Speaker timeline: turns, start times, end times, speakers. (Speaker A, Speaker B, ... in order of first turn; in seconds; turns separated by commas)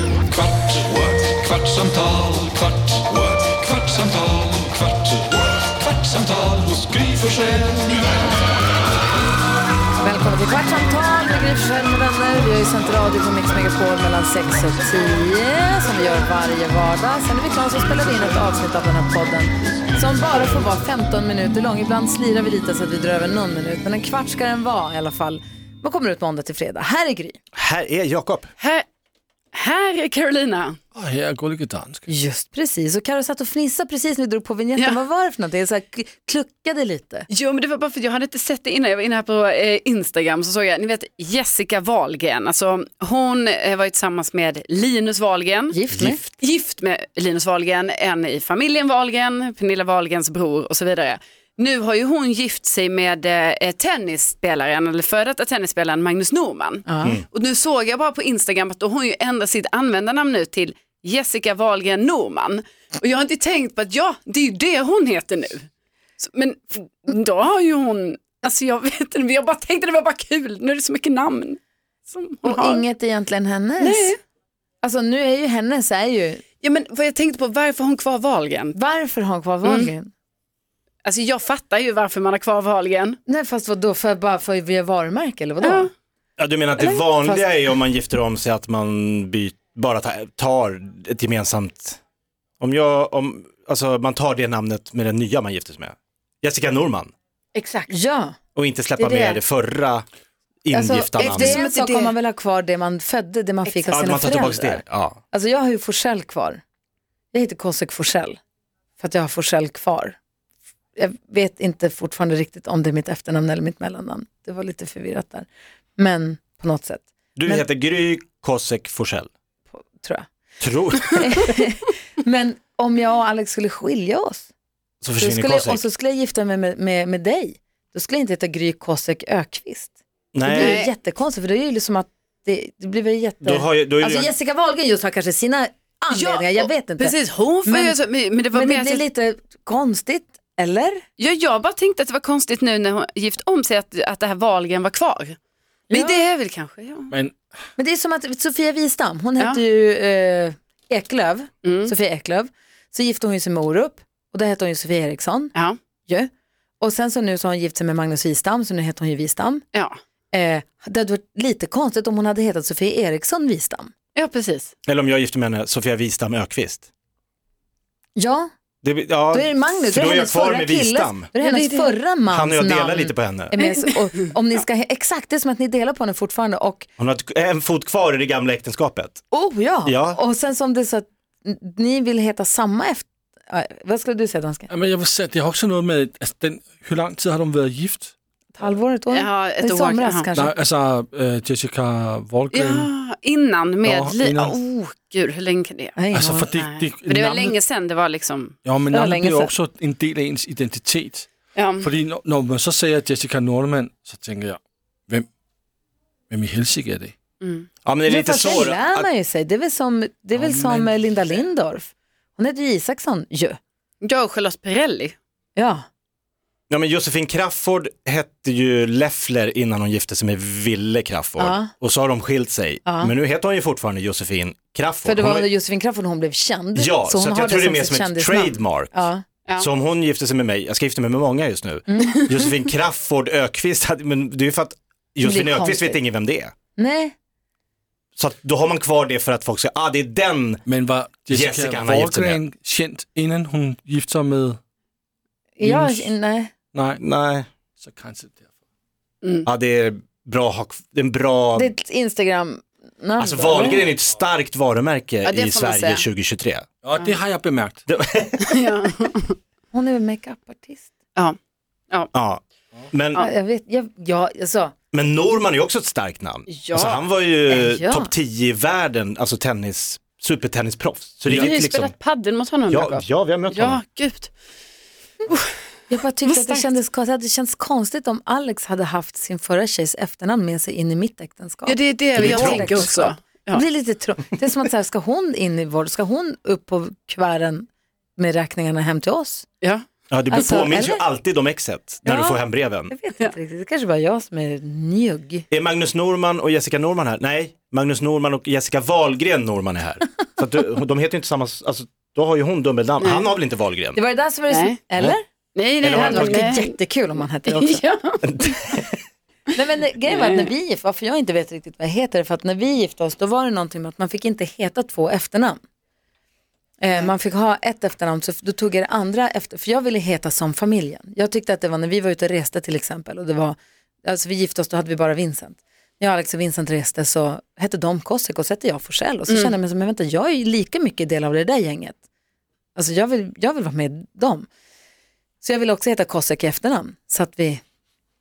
Speaker A: 0.4-2.9, Speaker B: 0.8-1.9, Speaker B: 2.9-4.6, Speaker A: 3.9-5.0, Speaker A: 6.0-8.1, Speaker B: 6.6-7.5, Speaker C: 10.0-27.4, Speaker D: 27.5-28.5, Speaker E: 28.6-28.8, Speaker E: 29.5-30.8, Speaker A: 30.9-32.1, Speaker C: 32.1-37.3, Speaker E: 37.3-45.8, Speaker C: 45.7-46.2, Speaker D: 45.9-46.2, Speaker E: 46.4-65.7, Speaker C: 56.9-57.2, Speaker E: 66.2-72.8, Speaker C: 72.4-74.2, Speaker E: 73.8-74.2, Speaker C: 74.8-76.4, Speaker E: 76.6-78.8, Speaker C: 78.7-80.1, Speaker E: 79.6-79.9, Speaker E: 81.0-83.2, Speaker C: 83.2-85.9, Speaker E: 85.6-85.9, Speaker D: 86.4-92.0, Speaker D: 92.6-97.1, Speaker E: 97.5-97.9, Speaker C: 97.9-98.4, Speaker D: 98.5-100.0, Speaker C: 99.0-99.4, Speaker D: 100.6-101.6, Speaker C: 100.7-106.6, Speaker E: 101.2-102.1, Speaker D: 103.9-105.2, Speaker C: 107.3-108.4, Speaker C: 109.0-110.2, Speaker C: 111.0-117.7, Speaker D: 117.3-119.3, Speaker C: 119.7-120.3, Speaker D: 120.6-121.4, Speaker C: 121.1-124.5, Speaker D: 125.0-125.8, Speaker C: 125.2-138.0, Speaker D: 130.3-130.8, Speaker E: 130.5-130.9, Speaker D: 133.4-134.3, Speaker E: 136.1-139.0, Speaker C: 138.5-141.0, Speaker E: 141.2-145.4, Speaker C: 145.9-146.2, Speaker E: 145.9-147.1, Speaker A: 147.1-147.3, Speaker C: 147.8-155.5, Speaker E: 151.6-151.9, Speaker C: 156.1-159.6, Speaker C: 160.3-163.9, Speaker E: 164.1-164.7, Speaker D: 164.8-166.9, Speaker C: 168.2-168.5, Speaker D: 168.8-171.3, Speaker C: 169.3-176.9, Speaker E: 171.4-171.9, Speaker D: 172.3-173.5, Speaker E: 173.6-174.1, Speaker D: 177.0-179.2, Speaker C: 179.3-184.7, Speaker D: 179.8-180.2, Speaker A: 184.7-188.1, Speaker C: 188.5-190.5, Speaker E: 189.1-190.3, Speaker A: 190.3-192.9, Speaker E: 192.5-196.0, Speaker A: 193.8-194.6, Speaker C: 195.9-196.5, Speaker A: 196.1-197.6, Speaker E: 196.5-198.6, Speaker A: 198.7-205.2, Speaker C: 198.9-199.5, Speaker E: 201.5-201.9, Speaker A: 206.3-207.1, Speaker E: 207.4-207.7, Speaker D: 207.8-209.1, Speaker C: 208.0-213.6, Speaker A: 210.4-210.9, Speaker E: 214.0-215.2, Speaker C: 215.5-215.8, Speaker D: 216.7-225.5, Speaker C: 221.4-221.7, Speaker C: 222.8-223.1, Speaker C: 225.0-229.2, Speaker D: 226.7-229.1, Speaker D: 229.6-236.5, Speaker C: 231.9-232.3, Speaker C: 235.2-236.0, Speaker C: 236.8-237.1, Speaker D: 238.2-240.6, Speaker A: 240.7-244.6, Speaker D: 241.3-242.4, Speaker C: 245.6-246.5, Speaker A: 245.6-246.1, Speaker A: 246.7-247.0, Speaker D: 247.0-247.5, Speaker A: 247.8-248.4, Speaker D: 249.4-251.7, Speaker C: 251.5-253.9, Speaker D: 253.2-256.6, Speaker E: 255.2-256.0, Speaker A: 256.8-257.8, Speaker D: 257.9-258.6, Speaker E: 258.4-259.4, Speaker C: 259.7-260.9, Speaker D: 262.1-263.2, Speaker C: 263.1-264.7, Speaker D: 264.9-271.9, Speaker E: 266.5-267.0, Speaker C: 267.5-268.1, Speaker E: 271.3-274.3, Speaker D: 272.7-273.8, Speaker C: 275.9-289.4, Speaker E: 276.2-276.7, Speaker E: 281.6-283.6, Speaker D: 282.1-282.9, Speaker D: 290.1-292.9, Speaker C: 290.3-291.0, Speaker C: 292.0-295.5, Speaker D: 295.5-304.0, Speaker E: 303.0-303.3, Speaker C: 303.9-305.2, Speaker E: 304.5-304.8, Speaker E: 305.6-306.7, Speaker D: 305.8-306.4, Speaker C: 305.9-307.8, Speaker E: 307.4-308.7, Speaker D: 308.2-308.9, Speaker C: 309.6-315.6, Speaker E: 310.1-310.5, Speaker C: 316.8-332.0, Speaker E: 329.3-329.5, Speaker C: 332.7-334.5, Speaker C: 335.4-337.6